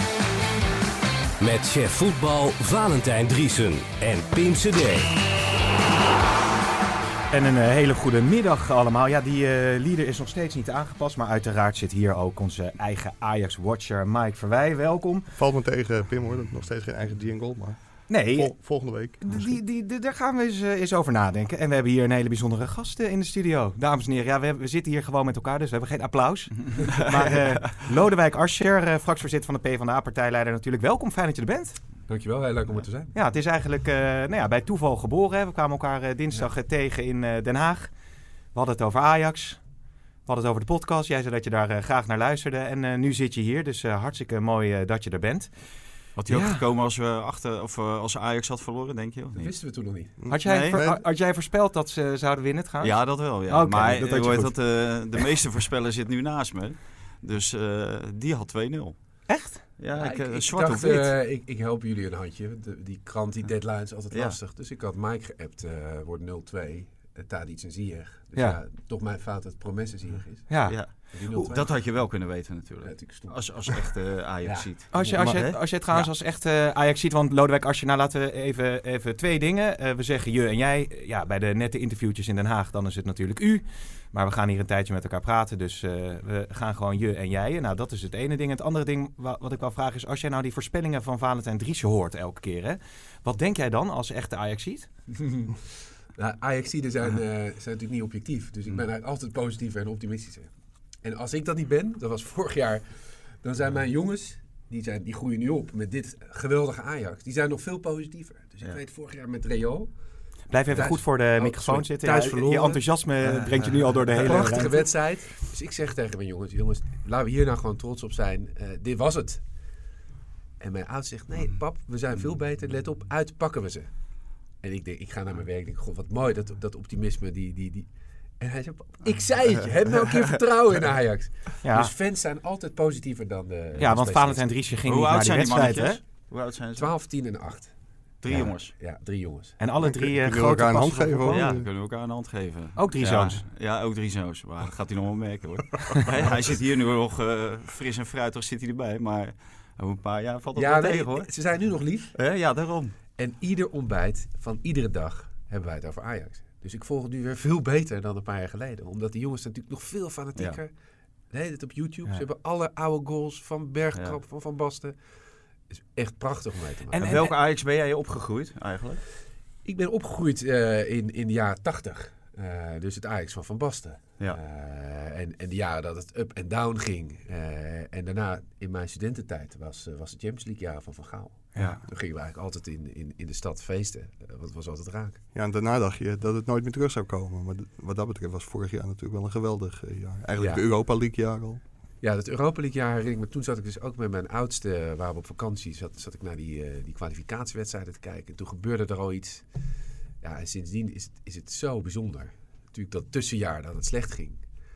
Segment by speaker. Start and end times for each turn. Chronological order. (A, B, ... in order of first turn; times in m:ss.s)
0:01.4-0:05.1 A
0:07.3-0:15.2 B
0:15.4-0:19.6 C
0:18.1-0:31.8 B
0:32.1-0:33.1 D
0:33.1-0:37.9 B
0:38.5-0:39.6 B
0:40.2-0:45.5 B
0:46.2-0:49.5 E
0:49.4-0:50.1 D
0:50.2-0:51.0 C
0:50.3-0:54.6 B
0:50.4-0:50.8 E
0:52.8-1:01.1 E
0:59.3-0:59.6 B
1:00.0-1:12.0 D
1:04.1-1:04.4 E
1:10.5-1:11.5 B
1:10.7-1:16.1 E
1:12.8-1:13.9 D
1:14.9-1:34.9 B
1:15.1-1:15.5 C
1:35.2-1:35.6 D
1:36.1-1:40.5 D
1:41.0-1:49.9 D
1:50.5-1:54.9 B
1:50.7-1:59.4 D
2:00.6-2:14.4 D
2:11.6-2:11.9 B
2:13.8-2:16.0 B
2:14.8-2:16.9 E
2:16.8-2:17.7 D
2:18.2-2:18.7 E
2:18.3-2:19.6 D
2:19.6-2:21.5 B
2:19.8-2:21.6 C
2:21.3-2:31.3 E
2:22.8-2:23.4 B
2:30.5-2:32.2 D
2:32.1-2:33.0 E
2:33.1-2:40.7 D
2:41.3-2:45.0 D
2:45.7-2:47.2 D
2:46.9-2:47.3 B
2:47.0-2:49.0 E
2:49.6-3:05.2 D
3:01.5-3:01.8 B
3:05.3-3:11.6 C
3:10.4-3:10.6 D
3:12.0-3:19.5 D
3:20.2-3:24.4 D